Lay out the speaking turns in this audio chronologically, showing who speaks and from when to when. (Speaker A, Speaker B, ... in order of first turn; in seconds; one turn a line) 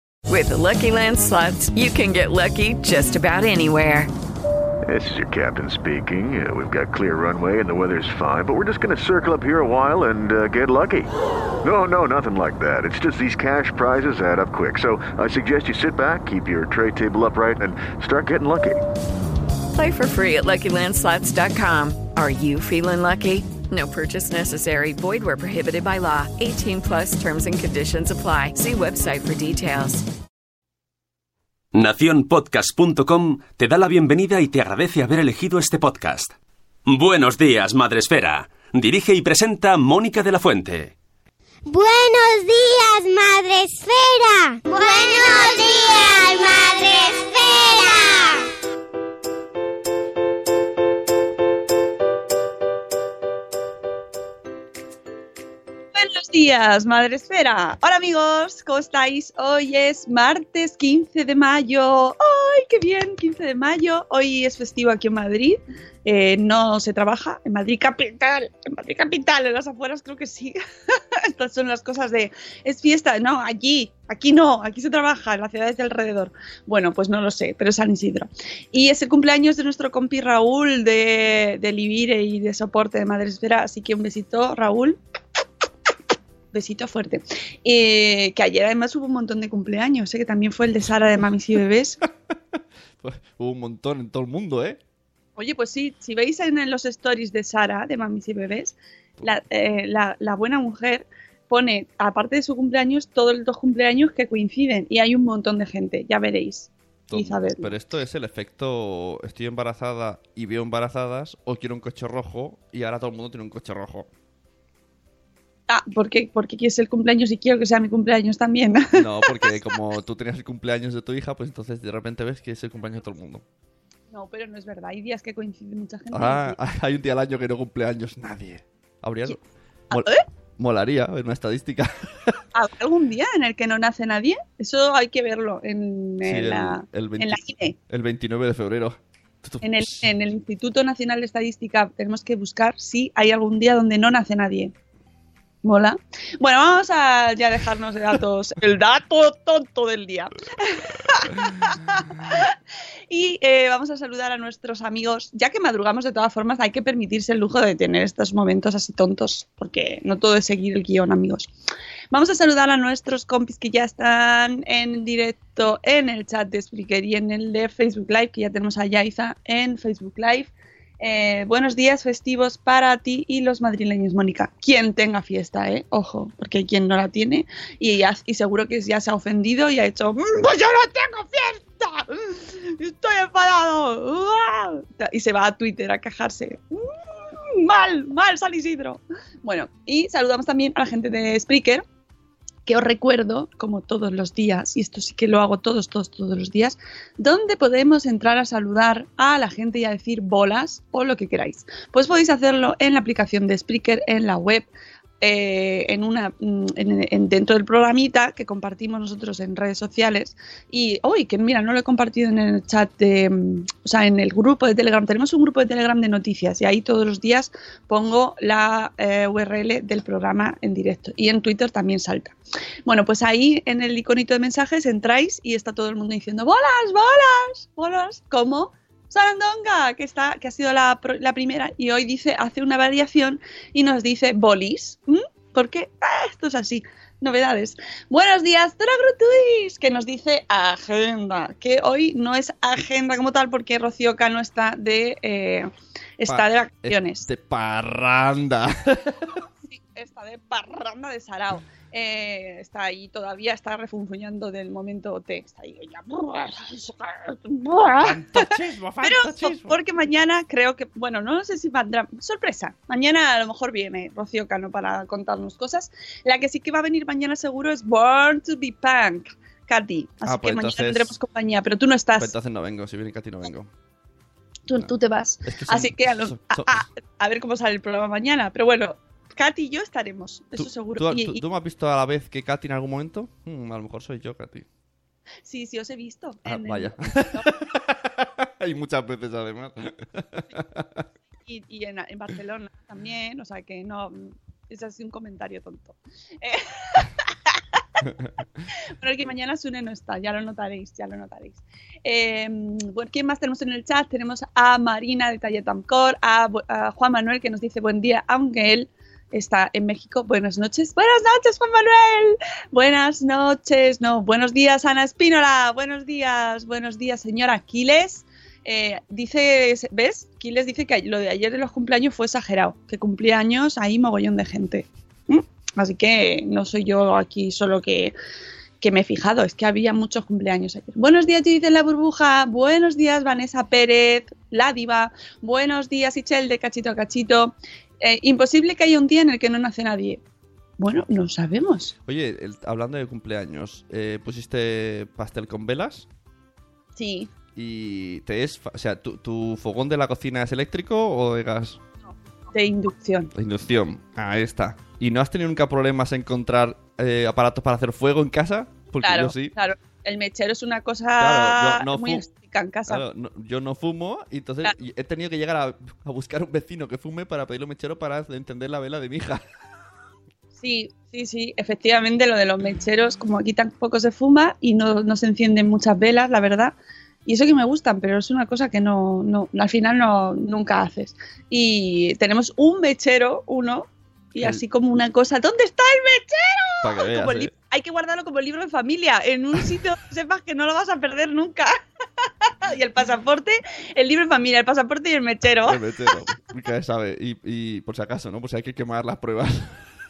Speaker A: 0.3-4.1
Speaker B: 4.9-11.1
Speaker B: 11.6-18.8
Speaker A: 19.7-30.0
Speaker C: 31.7-36.4
Speaker C: 36.9-41.0
Speaker D: 41.7-48.4
Speaker E: 55.9-85.0
Speaker E: 86.5-92.0
Speaker F: 93.0-94.8
Speaker E: 95.4-107.7
Speaker F: 107.1-114.1
Speaker E: 115.7-119.6
Speaker F: 118.9-123.4
Speaker E: 124.1-126.6
Speaker F: 126.1-132.4
Speaker E: 129.9-130.2
Speaker E: 132.5-137.8
Speaker F: 136.2-140.2
Speaker E: 139.6-144.7
Speaker E: 145.6-152.6
Speaker E: 153.1-161.5
Speaker E: 162.1-191.8
Speaker E: 192.7-204.7
Speaker E: 205.2-247.3
Speaker F: 246.3-249.3
Speaker E: 249.6-272.3
Speaker F: 258.0-259.8
Speaker F: 270.2-271.1
Speaker F: 272.2-273.7
Speaker E: 274.7-281.4
Speaker F: 275.4-276.9
Speaker F: 280.6-284.7
Speaker E: 285.5-287.6
Speaker F: 286.5-291.0
Speaker E: 291.4-298.0
Speaker E: 299.0-328.1
Speaker E: 328.8-340.2
Speaker E: 340.8-341.9
Speaker F: 342.1-346.1
Speaker E: 347.0-347.3
Speaker F: 347.6-351.8
Speaker E: 352.5-353.3
Speaker F: 353.3-359.5
Speaker E: 359.0-363.0
Speaker F: 361.2-362.2
Speaker F: 362.9-369.4
Speaker E: 370.6-376.8
Speaker E: 377.3-391.7
Speaker F: 386.8-387.5
Speaker E: 392.6-395.8
Speaker F: 395.6-399.9